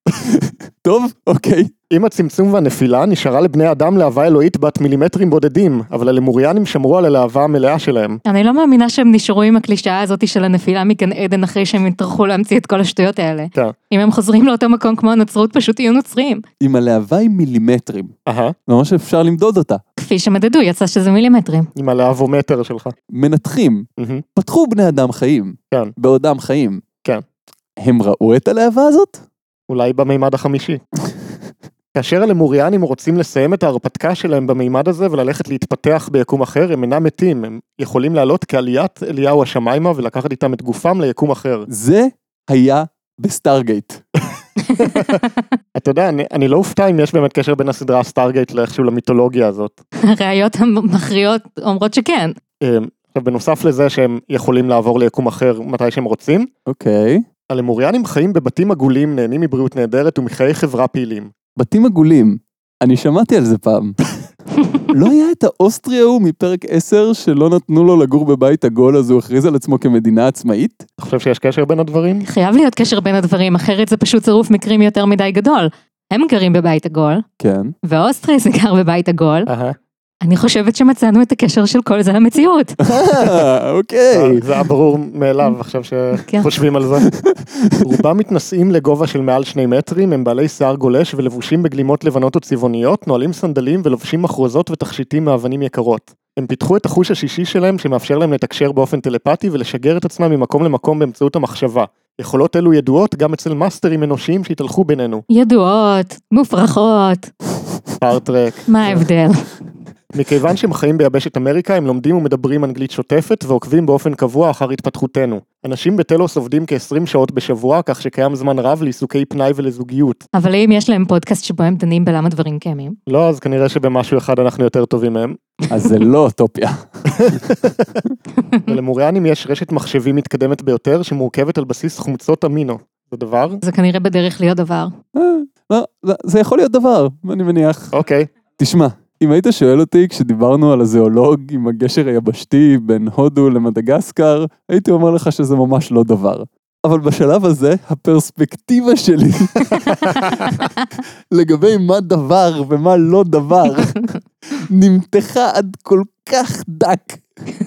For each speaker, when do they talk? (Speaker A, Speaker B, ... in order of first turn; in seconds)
Speaker A: 0.3-1.7, 16.6-18.1, 18.7-19.8, 23.1-26.8, 27.8-29.2, 41.7-44.0, 56.7-57.2, 61.6-64.0, 64.9-70.9, 77.4-77.7, 82.8-84.5, 87.0-88.0, 125.7-127.4, 135.1-137.9, 138.6-157.2
Speaker B: 1.9-8.2, 18.3-18.6, 21.8-22.9, 24.0-24.2, 29.7-30.8, 31.9-41.7, 44.8-45.2, 45.8-49.8, 52.6-56.5, 57.5-61.3, 71.0-72.3, 79.5-79.8, 84.1-87.1, 87.8-105.2, 108.0-109.1, 110.1-120.2, 123.1-125.4, 127.1-127.9, 128.7-133.6, 137.9-138.3
Speaker C: 8.3-16.4, 20.0-21.7, 50.0-52.4, 72.2-77.2, 77.8-79.5, 80.2-82.8, 105.3-107.3, 108.7-109.5, 120.3-123.0, 133.6-134.9